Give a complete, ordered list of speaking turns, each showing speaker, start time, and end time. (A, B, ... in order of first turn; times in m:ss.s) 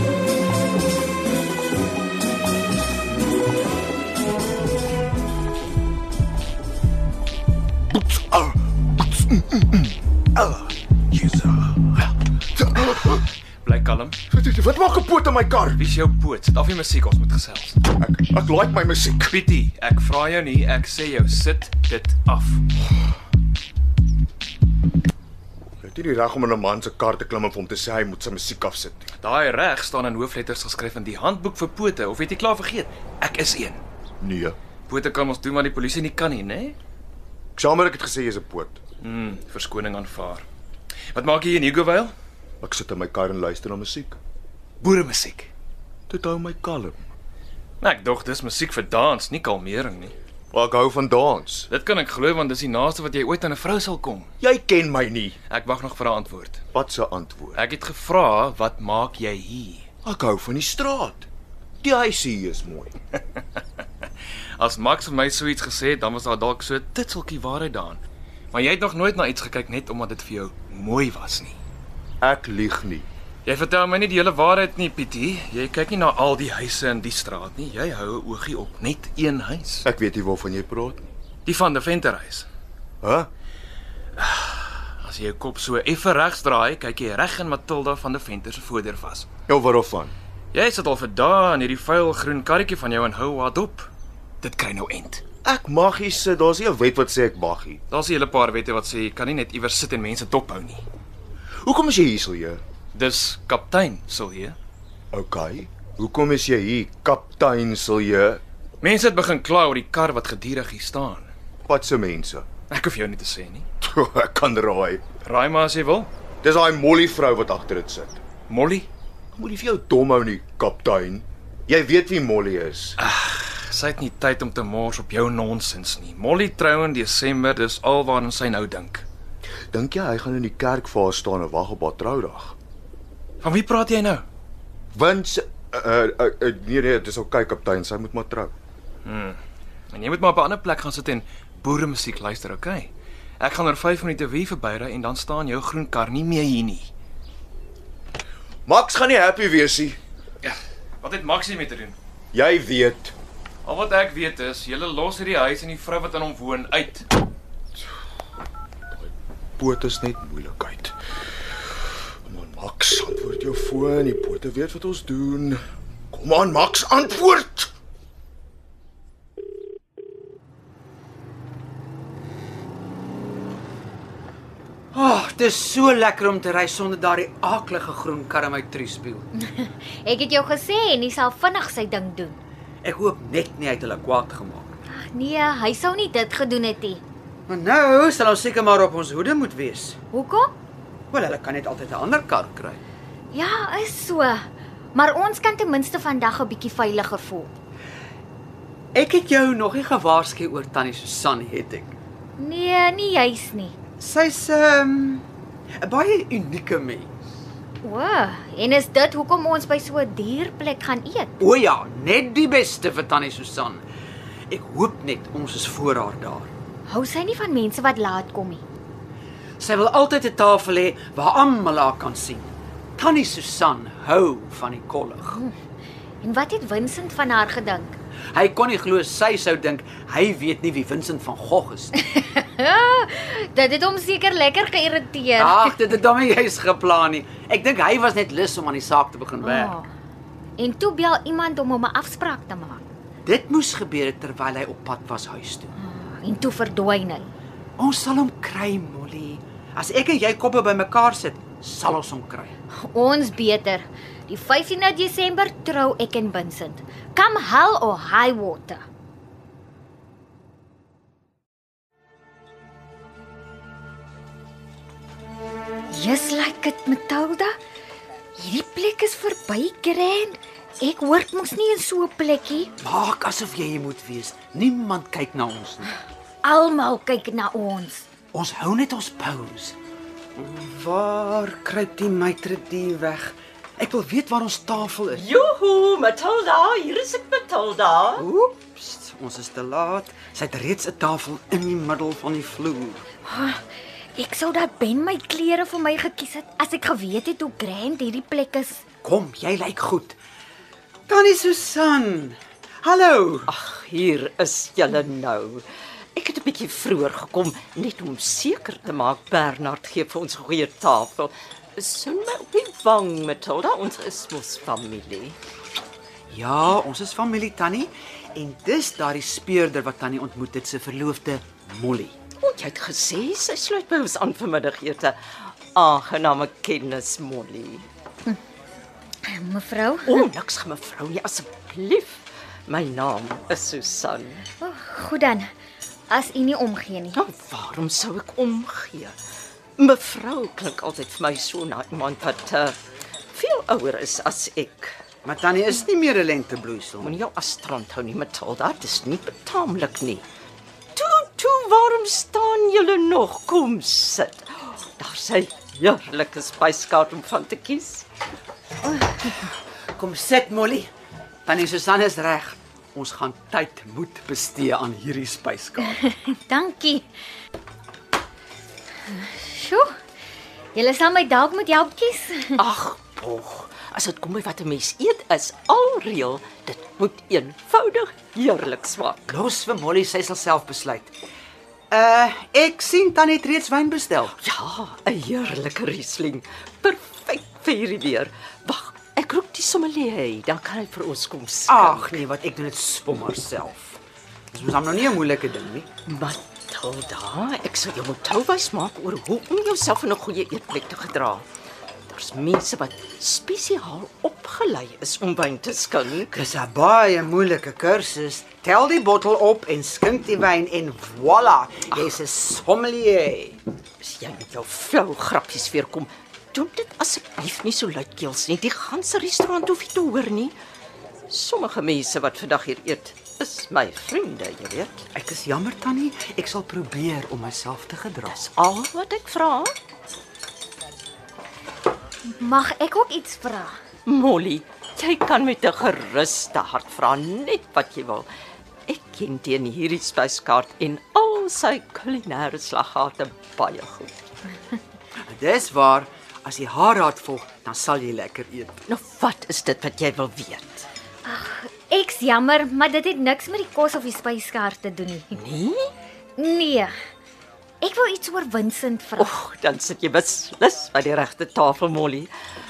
0:07.8-0:13.2 A
0:13.6-0:14.2 B
0:14.3-0:15.8 A
0:15.8-0:17.8 B
0:17.9-0:19.4 A
0:19.3-0:22.6 B
0:25.8-0:29.1 A
0:29.2-0:33.8 B
0:34.2-0:34.6 A
0:34.9-0:36.8 B
0:37.6-0:38.8 A
0:39.0-0:40.4 B
0:41.1-0:42.1 B
0:42.6-0:44.2 A
0:44.8-0:45.5 B
0:46.1-0:47.0 A
0:47.8-0:50.1 B
0:50.5-0:51.7 A
0:51.7-0:54.3 B
0:54.4-0:55.4 A
0:55.5-0:56.6 B
0:56.7-0:57.6 A
0:57.6-0:59.9 B
1:00.0-1:01.3 A
1:01.8-1:02.9 A
1:04.6-1:08.0 B
1:08.5-1:11.6 B
1:12.2-1:13.1 A
1:13.4-1:19.9 B
1:19.8-1:21.1 A
1:21.5-1:22.5 B
1:23.0-1:23.3 A
1:24.2-1:29.3 B
1:29.5-1:30.1 A
1:30.5-1:33.9 B
1:34.4-1:35.2 B
1:35.4-1:37.8 A
1:37.9-1:40.8 B
1:41.6-1:42.6 A
1:43.0-1:44.6 B
1:45.1-1:48.4 A
1:48.8-1:51.3 B
1:51.7-1:52.5 A
1:52.7-1:53.7 B
1:53.8-1:55.0 A
1:55.2-1:56.1 B
1:56.4-1:58.2 A
1:58.5-1:58.9 B
1:59.3-2:03.0 A
2:03.0-2:09.0 B
2:09.7-2:12.6 A
2:13.4-2:14.2 B
2:14.9-2:18.5 A
2:19.0-2:19.4 B
2:19.9-2:26.9 B
2:28.7-2:30.0 A
2:30.4-2:32.0 B
2:32.3-2:33.1 A
2:33.6-2:37.1 B
2:39.0-2:41.0 A
2:42.2-2:45.6 A
2:46.1-2:47.7 A
2:54.9-2:59.3 C
2:59.4-3:02.4 D
3:02.8-3:04.8 C
3:04.9-3:07.0 D
3:07.5-3:10.0 C
3:10.1-3:10.5 D
3:11.1-3:12.8 C
3:13.3-3:17.5 D
3:18.9-3:22.0 C
3:22.4-3:23.8 D
3:24.0-3:25.2 C
3:25.8-3:27.1 C
3:27.8-3:31.4 D
3:31.4-3:33.8 C
3:34.5-3:36.5 C
3:36.9-3:38.6 D
3:39.6-3:45.4 C
3:45.3-3:45.5 D
3:46.2-3:48.0 D
3:48.3-3:51.9 C
3:51.9-3:55.8 D
3:55.4-3:59.8 C
3:59.4-3:59.9 D
4:00.6-4:02.8 D
4:03.3-4:05.7 C
4:05.8-4:07.3 D
4:07.8-4:12.5 C
4:12.7-4:18.8 D
4:25.9-4:27.6 D
4:28.4-4:32.7 D
4:32.8-4:36.0 C
4:36.4-4:38.1 D
4:38.3-4:39.8 C
4:40.4-4:45.2 C
4:45.1-4:48.3 E
4:48.2-4:53.0 C
4:53.2-4:53.6 D
4:54.2-4:58.8 D
4:59.0-5:00.2 C
5:01.1-5:03.5 C
5:03.5-5:15.4 E
5:16.3-5:22.2 C
5:22.4-5:25.2 E
5:25.7-5:27.9 E
5:29.2-5:30.3 D
5:30.0-5:34.4 E
5:34.6-5:35.5 D
5:36.1-5:37.2 D
5:37.2-5:39.2 E
5:39.8-5:42.8 E
5:43.3-5:45.0 E
5:45.2-5:47.1 C
5:47.0-5:50.2 E
5:51.0-5:58.1 E
6:00.0-6:00.9 C
6:01.5-6:06.0 C
6:06.0-6:07.1 D
6:09.1-6:09.9 D
6:10.7-6:12.6 D
6:12.6-6:19.4 E
6:19.3-6:21.1 C
6:21.9-6:24.4 C
6:24.4-6:32.2 E
6:31.7-6:34.0 C
6:34.5-6:35.9 C
6:36.1-6:41.4 E
6:42.1-6:46.4 E
6:46.3-6:53.6 C
6:54.0-7:00.6 E
7:01.3-7:05.1 E
7:05.1-7:08.4 C
7:08.3-7:09.8 E
7:12.2-7:13.8 D
7:14.1-7:18.3 E
7:18.9-7:24.1 E
7:25.3-7:28.8 C
7:28.9-7:30.9 E
7:31.2-7:35.4 D
7:35.3-7:35.9 E
7:36.4-7:36.9 D
7:37.8-7:39.3 D
7:39.2-7:42.3 E